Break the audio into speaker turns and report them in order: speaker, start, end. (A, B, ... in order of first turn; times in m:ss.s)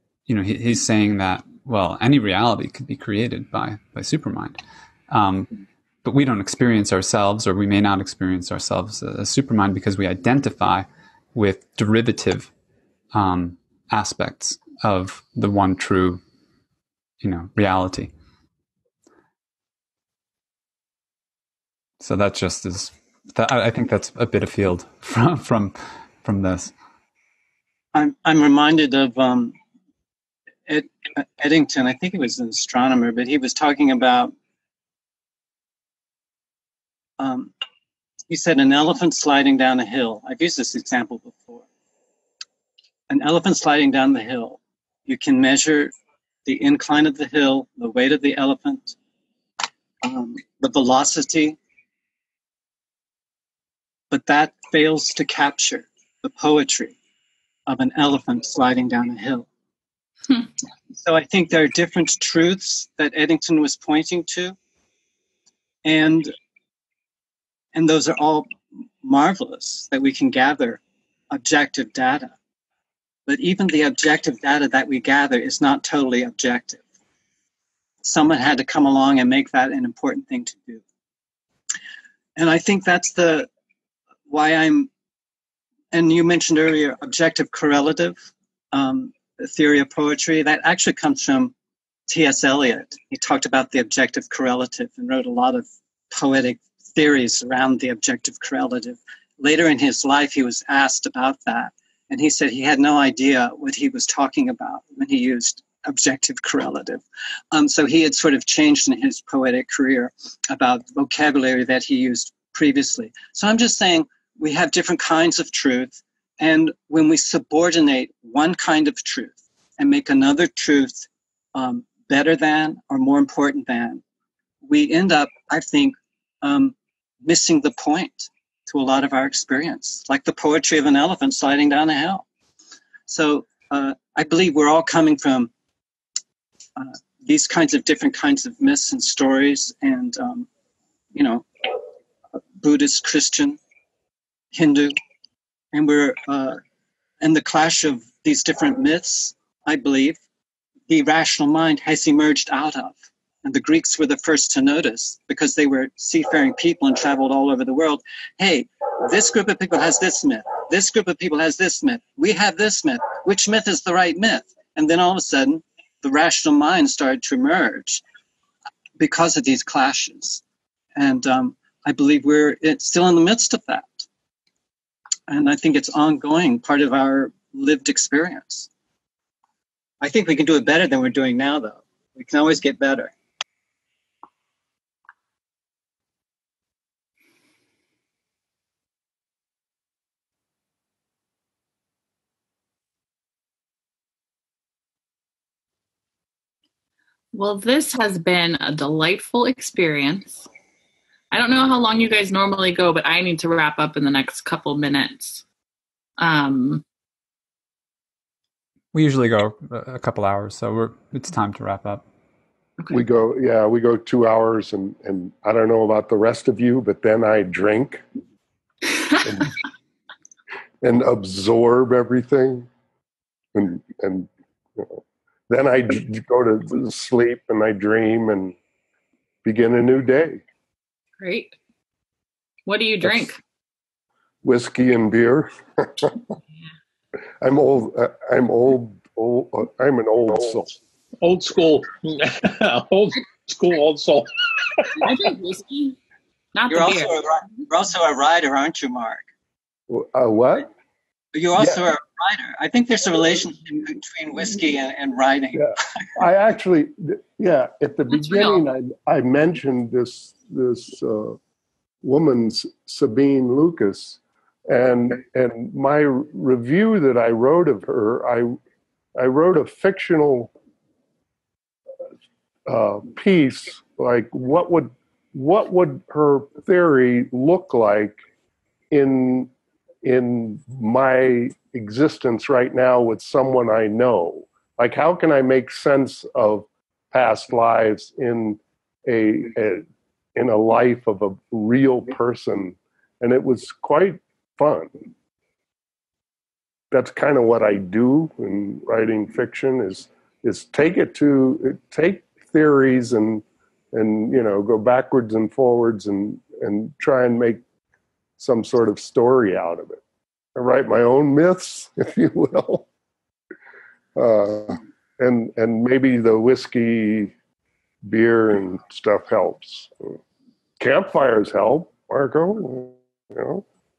0:00.3-0:12.5 A
0:13.1-0:16.2 A
0:17.2-0:18.1 A
0:22.0-0:26.7 A
0:27.9-0:29.6 B
0:30.7-0:34.3 B
0:37.2-0:37.5 B
0:38.3-0:41.7 B
0:43.1-0:45.9 B
0:46.4-0:49.0 B
0:50.0-0:51.6 B
0:54.1-0:57.0 B
0:57.7-0:59.5 B
1:01.0-1:04.6 B
1:05.8-1:06.3 B
1:07.7-1:08.5 B
1:09.0-1:10.8 B
1:11.3-1:12.3 B
1:13.3-1:16.8 B
1:18.0-1:20.8 B
1:22.4-1:23.5 B
1:24.3-1:24.9 B
1:25.9-1:31.5 B
1:32.1-2:04.0 B
2:04.6-2:12.2 B
2:13.1-2:15.5 B
2:16.8-2:20.5 B
2:21.1-2:21.7 B
2:22.6-2:23.6 B
2:24.5-2:25.0 B
2:25.7-2:26.6 B
2:27.2-2:30.2 B
2:30.9-2:48.0 B
2:49.0-2:50.4 B
2:51.0-2:54.1 B
2:55.3-2:58.7 B
3:00.0-3:03.1 B
3:17.3-3:20.5 C
3:21.3-3:25.4 C
3:26.2-3:26.8 C
3:28.9-3:32.0 A
3:32.9-3:38.0 D
3:39.2-3:39.5 D
3:40.8-3:42.7 D
3:43.5-3:48.6 D
3:49.4-3:50.4 D
3:51.2-3:51.6 C
3:52.7-3:53.4 C
3:54.4-3:56.2 D
3:57.4-4:00.8 D
4:01.2-4:05.1 E
4:04.9-4:06.0 C
4:06.5-4:07.2 C
4:06.7-4:09.3 B
4:09.9-4:10.7 D
4:11.3-4:16.0 B
4:15.6-4:21.4 D
4:18.2-4:18.6 C
4:22.0-4:28.6 D
4:29.2-4:30.5 D
4:32.7-4:38.2 D
4:38.9-4:39.5 D
4:40.0-4:54.9 D
4:56.9-5:07.6 D
5:08.4-5:10.0 D
5:10.6-5:12.9 D
5:14.2-5:17.3 D
5:18.0-5:20.2 D
5:20.8-5:23.6 D